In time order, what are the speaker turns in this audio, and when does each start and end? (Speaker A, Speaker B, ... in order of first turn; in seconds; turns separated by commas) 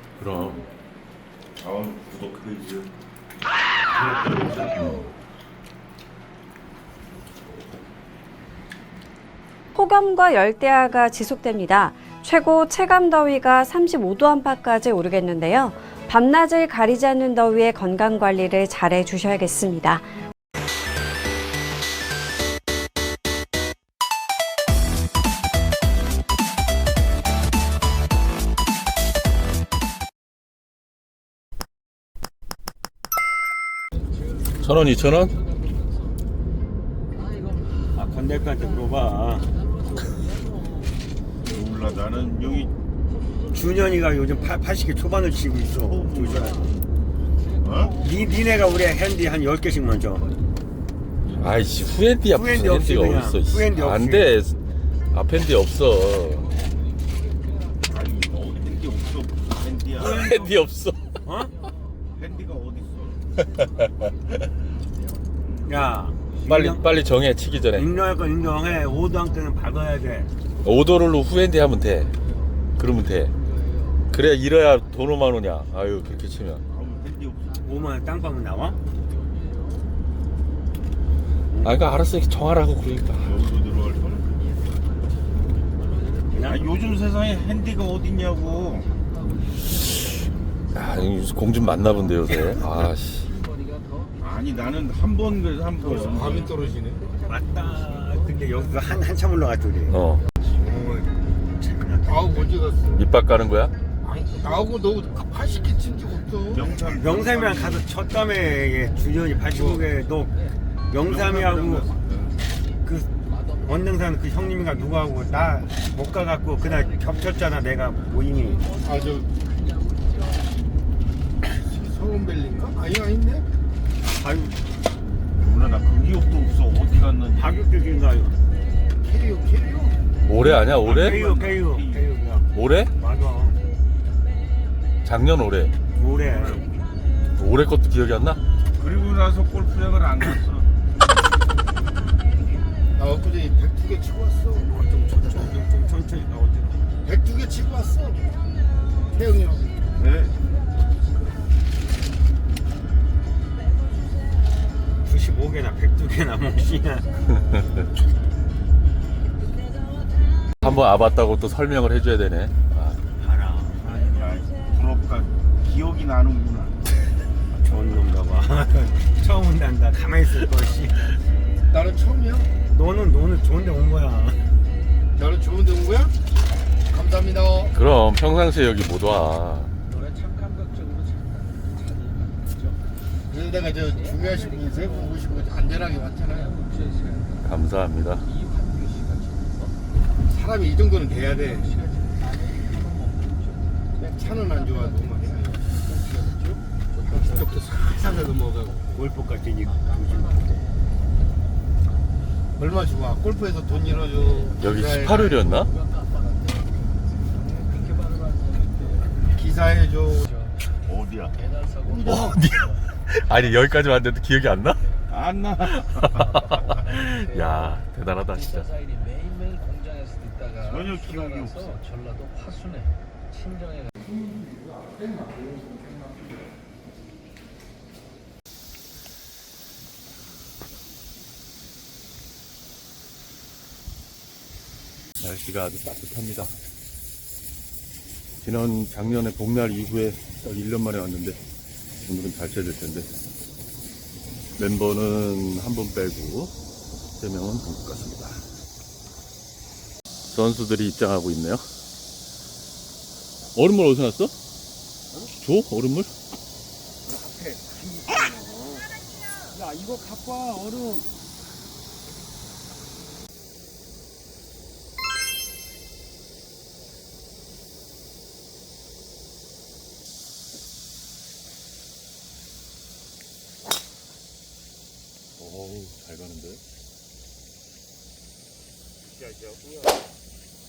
Speaker A: 0.2-0.7, Speaker B: 1.6-2.9, Speaker B: 3.9-4.8, Speaker A: 4.8-5.1, Speaker C: 9.7-20.2, Speaker D: 33.9-36.3, Speaker A: 34.6-35.3, Speaker D: 37.1-38.8, Speaker E: 38.0-39.5, Speaker D: 39.4-41.0, Speaker B: 41.4-42.7, Speaker D: 42.3-42.6, Speaker D: 43.2-44.5, Speaker E: 43.5-46.7, Speaker B: 45.7-46.8, Speaker D: 46.2-46.8, Speaker D: 47.3-49.0, Speaker B: 47.6-48.0, Speaker E: 48.0-50.2, Speaker D: 50.2-50.6, Speaker A: 51.4-54.5, Speaker E: 52.3-54.4, Speaker A: 55.1-56.5, Speaker D: 56.1-57.9, Speaker B: 57.8-60.7, Speaker A: 60.0-61.1, Speaker E: 61.2-61.5, Speaker D: 61.4-62.1, Speaker B: 62.1-63.2, Speaker D: 63.6-64.1, Speaker A: 63.8-64.1, Speaker E: 65.7-66.9, Speaker A: 66.5-67.9, Speaker E: 67.7-70.3, Speaker A: 70.6-72.1, Speaker D: 72.1-72.7, Speaker A: 72.8-73.3, Speaker D: 73.3-74.1, Speaker A: 74.1-76.6, Speaker B: 76.6-77.7, Speaker D: 76.7-79.9, Speaker E: 77.6-78.8, Speaker A: 81.6-83.4, Speaker B: 83.2-84.3, Speaker D: 84.3-86.9, Speaker B: 86.3-88.9, Speaker D: 88.3-90.0, Speaker A: 90.7-93.3, Speaker D: 91.7-94.2, Speaker B: 94.2-96.5, Speaker F: 95.8-97.0, Speaker D: 96.0-99.1, Speaker E: 97.3-100.0, Speaker A: 99.9-100.2, Speaker F: 100.5-101.1, Speaker E: 101.5-102.5, Speaker F: 102.0-103.0, Speaker A: 102.9-103.7, Speaker F: 104.0-106.7, Speaker D: 104.3-106.6, Speaker B: 106.5-107.9, Speaker E: 106.9-110.3, Speaker D: 108.4-110.6, Speaker E: 110.9-111.9, Speaker B: 111.0-112.4, Speaker E: 112.8-113.1, Speaker D: 113.2-114.2, Speaker E: 113.6-118.6, Speaker D: 116.6-120.7, Speaker F: 118.8-119.3, Speaker F: 121.6-123.5, Speaker E: 124.2-124.6, Speaker B: 125.3-127.7, Speaker E: 127.4-128.3, Speaker F: 129.0-130.0, Speaker A: 130.2-131.2, Speaker B: 130.4-132.1, Speaker E: 130.8-132.4, Speaker A: 132.5-132.9, Speaker E: 133.0-133.6, Speaker A: 135.0-135.7, Speaker E: 136.0-136.6, Speaker B: 136.2-136.7, Speaker A: 137.3-138.4, Speaker B: 138.8-140.7, Speaker F: 142.9-145.7, Speaker E: 144.7-146.8, Speaker F: 147.0-148.2, Speaker F: 149.1-149.8, Speaker B: 150.0-150.3, Speaker E: 155.0-157.1, Speaker A: 157.3-157.8, Speaker A: 160.6-163.0, Speaker E: 163.2-164.0, Speaker B: 163.8-166.8, Speaker E: 167.6-171.1, Speaker F: 171.7-172.5, Speaker E: 172.7-174.4, Speaker F: 175.1-176.1, Speaker F: 176.9-177.7, Speaker A: 177.7-179.7, Speaker D: 179.9-182.8, Speaker F: 183.3-186.5, Speaker D: 183.7-187.5, Speaker A: 187.4-188.2, Speaker D: 188.2-189.8, Speaker F: 190.3-191.8, Speaker D: 191.2-197.7, Speaker F: 194.0-195.6, Speaker F: 197.1-199.0, Speaker E: 198.9-200.3, Speaker D: 199.6-200.8, Speaker F: 202.6-205.4, Speaker D: 203.7-209.2, Speaker A: 204.6-205.7, Speaker F: 209.3-210.3, Speaker D: 210.2-210.8, Speaker B: 210.8-211.3, Speaker D: 211.3-212.8, Speaker F: 211.9-212.4, Speaker A: 212.1-214.8, Speaker B: 215.1-216.2, Speaker A: 215.8-218.7, Speaker D: 216.0-217.8, Speaker D: 218.3-223.9, Speaker B: 220.6-221.8, Speaker A: 235.2-236.5, Speaker A: 238.4-241.4, Speaker A: 242.1-243.1, Speaker A: 244.6-246.5, Speaker A: 247.2-248.4, Speaker A: 250.3-251.7, Speaker A: 253.5-254.3, Speaker A: 255.4-256.1, Speaker F: 257.1-257.6, Speaker E: 258.1-258.8, Speaker F: 260.3-260.8, Speaker A: 275.4-276.6